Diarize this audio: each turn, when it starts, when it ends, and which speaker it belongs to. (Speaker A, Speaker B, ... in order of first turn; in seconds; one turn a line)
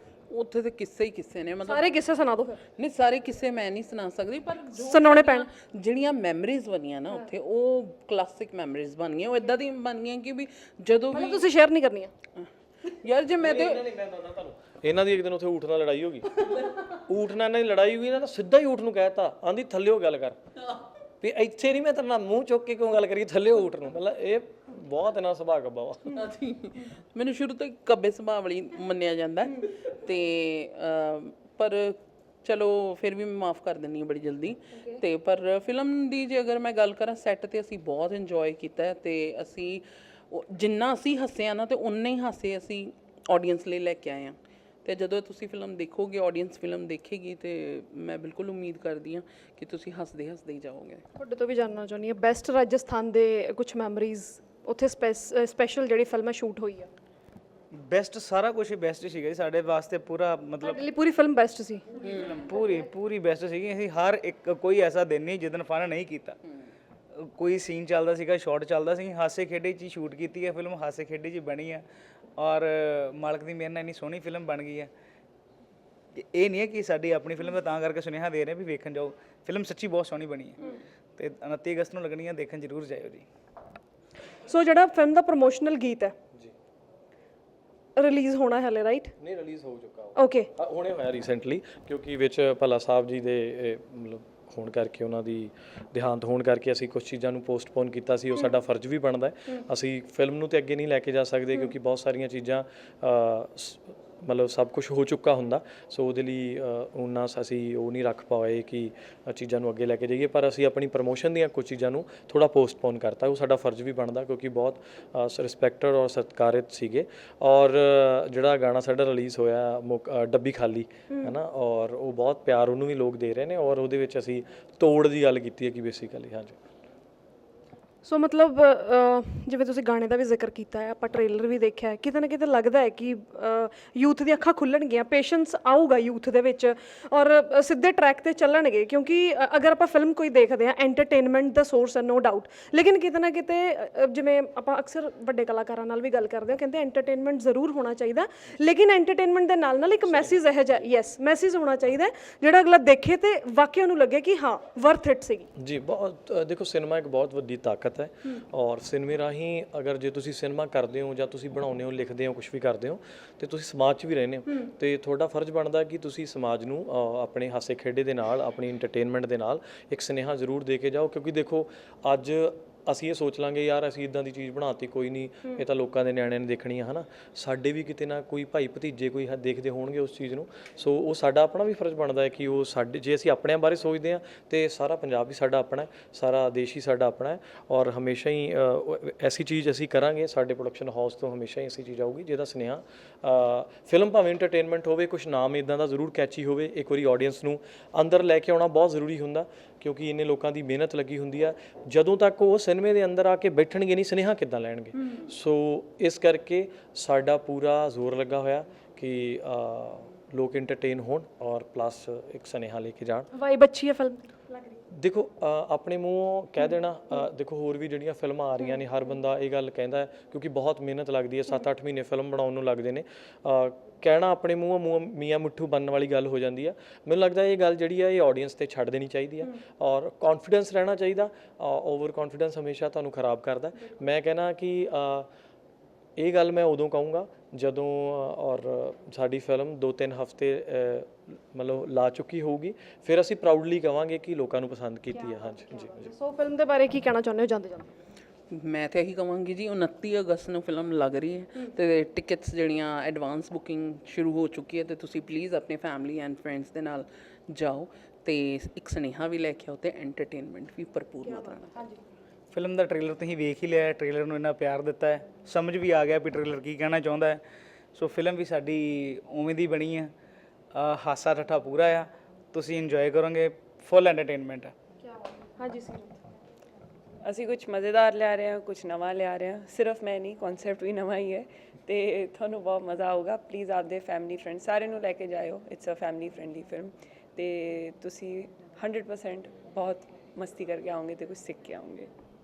Speaker A: 0.3-2.0
Speaker B: 1.6-2.6
Speaker A: 2.7-11.5
Speaker B: 4.8-5.5
Speaker B: 11.1-12.1
Speaker A: 12.3-13.8
Speaker C: 13.4-20.4
Speaker C: 21.2-26.2
Speaker A: 26.1-51.0
Speaker B: 51.2-56.9
Speaker D: 57.7-60.8
Speaker B: 60.6-62.1
Speaker D: 62.2-66.4
Speaker D: 67.1-71.8
Speaker D: 72.4-74.9
Speaker D: 76.1-83.2
Speaker B: 84.5-86.1
Speaker B: 88.0-89.1
Speaker C: 89.2-126.6
Speaker B: 90.2-90.5
Speaker B: 121.1-121.3
Speaker B: 128.0-155.5
Speaker C: 150.1-150.4
Speaker C: 155.6-213.3
Speaker B: 213.3-214.8
Speaker C: 214.9-235.3
Speaker C: 236.2-246.1
Speaker B: 245.2-247.9
Speaker A: 248.5-261.8
Speaker B: 261.2-262.0
Speaker D: 262.5-267.4
Speaker D: 267.9-270.1
Speaker D: 270.7-274.7
Speaker B: 275.0-276.2
Speaker E: 277.2-292.1